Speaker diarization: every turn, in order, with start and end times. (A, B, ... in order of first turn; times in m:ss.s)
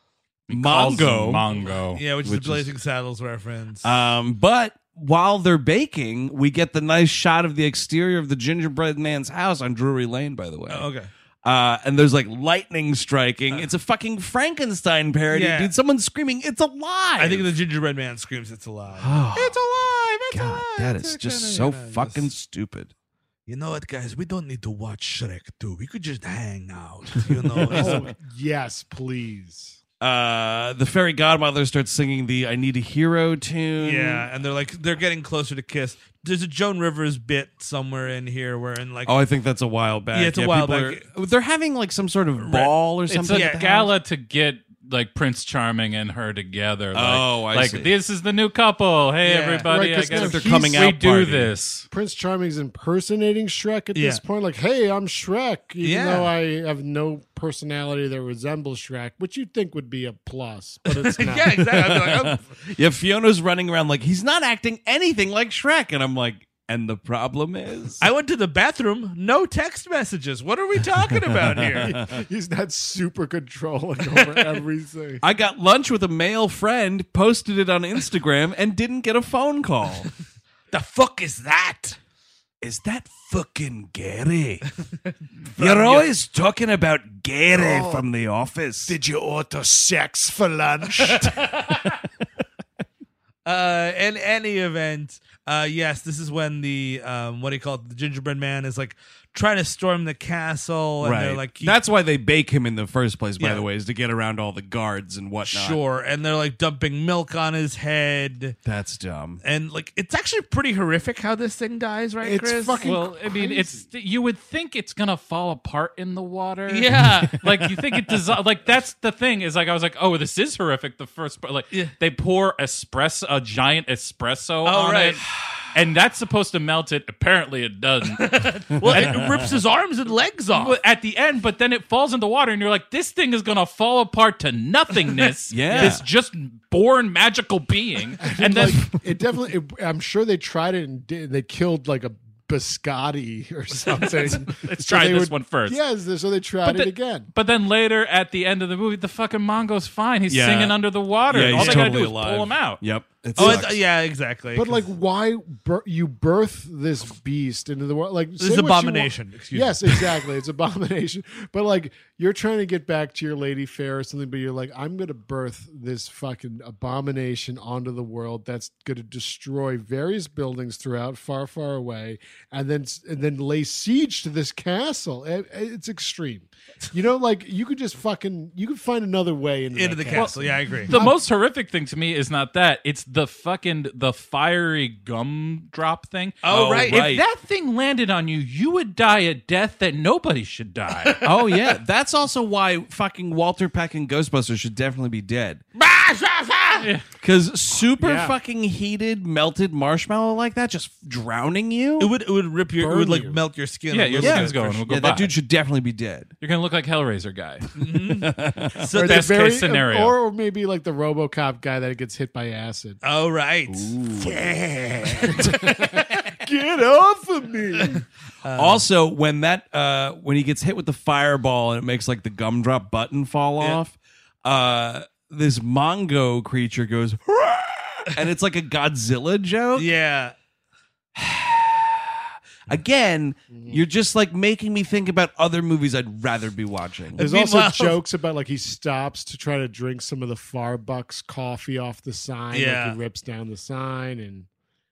0:00.5-0:02.0 A
0:00.5-0:01.4 B
0:01.5-0:03.9 C
0:02.2-0:02.7 B
0:03.8-0:10.9 B
0:10.7-0:11.1 C
0:11.4-0:17.5 B
0:15.3-0:15.7 C
0:17.2-0:22.3 C
0:19.0-0:19.6 B
0:20.3-0:22.9 B
0:23.5-0:28.1 C
0:27.6-0:28.1 B
0:27.7-0:29.8 D
0:30.0-0:34.3 B
0:33.8-0:39.1 C
0:39.0-0:43.9 B
0:40.1-0:41.0 C
0:42.4-0:42.7 C
0:43.1-0:51.9 A
0:43.3-0:43.8 C
0:46.9-0:47.9 B
0:49.2-0:49.7 C
0:49.6-0:50.8 D
0:50.1-0:51.5 B
0:51.9-1:01.7 D
0:53.9-0:54.2 C
0:55.8-0:56.3 C
1:00.9-1:02.4 C
1:01.7-1:08.0 B
1:08.0-1:12.0 C
1:11.3-1:12.2 B
1:11.8-1:15.2 D
1:15.2-1:20.1 B
1:20.7-1:22.0 C
1:22.6-1:24.6 B
1:25.5-1:26.1 C
1:25.6-1:29.0 B
1:27.5-1:28.0 D
1:28.9-1:31.4 D
1:30.9-1:31.9 C
1:33.4-1:41.8 C
1:41.0-1:45.8 B
1:43.4-1:43.6 C
1:45.4-1:48.6 C
1:48.6-1:49.4 B
1:49.4-1:52.9 C
1:52.2-1:53.8 D
1:52.8-2:05.2 A
1:56.7-1:57.4 C
2:04.6-2:05.3 C
2:05.7-2:09.2 A
2:08.2-2:10.8 C
2:08.8-2:09.3 B
2:10.5-2:19.0 A
2:15.5-2:16.0 B
2:18.2-2:27.3 D
2:24.1-2:25.8 A
2:26.6-2:32.8 A
2:30.3-2:33.8 B
2:31.5-2:31.9 C
2:33.4-2:33.7 D
2:33.4-2:34.8 C
2:34.5-3:01.2 D
2:38.4-2:40.1 C
2:59.7-3:00.9 C
3:00.1-3:11.3 A
3:06.4-3:07.0 C
3:06.5-3:07.2 B
3:11.2-3:15.6 B
3:15.7-3:16.9 C
3:17.2-3:22.1 B
3:18.0-3:18.3 D
3:22.0-3:24.8 C
3:22.8-3:23.4 D
3:23.9-3:25.3 A
3:24.2-3:26.3 B
3:26.4-3:27.7 A
3:27.8-3:29.4 C
3:28.2-3:28.8 B
3:28.9-3:33.0 D
3:29.0-3:30.2 A
3:33.0-3:36.0 C
3:33.7-3:34.5 B
3:35.2-3:38.0 D
3:38.4-3:38.8 C
3:38.5-3:49.9 B
3:49.7-3:50.3 C
3:51.2-3:52.1 B
3:52.7-3:57.2 B
3:53.5-3:53.8 D
3:57.2-3:58.0 C
3:57.2-4:04.5 D
4:02.5-4:03.0 C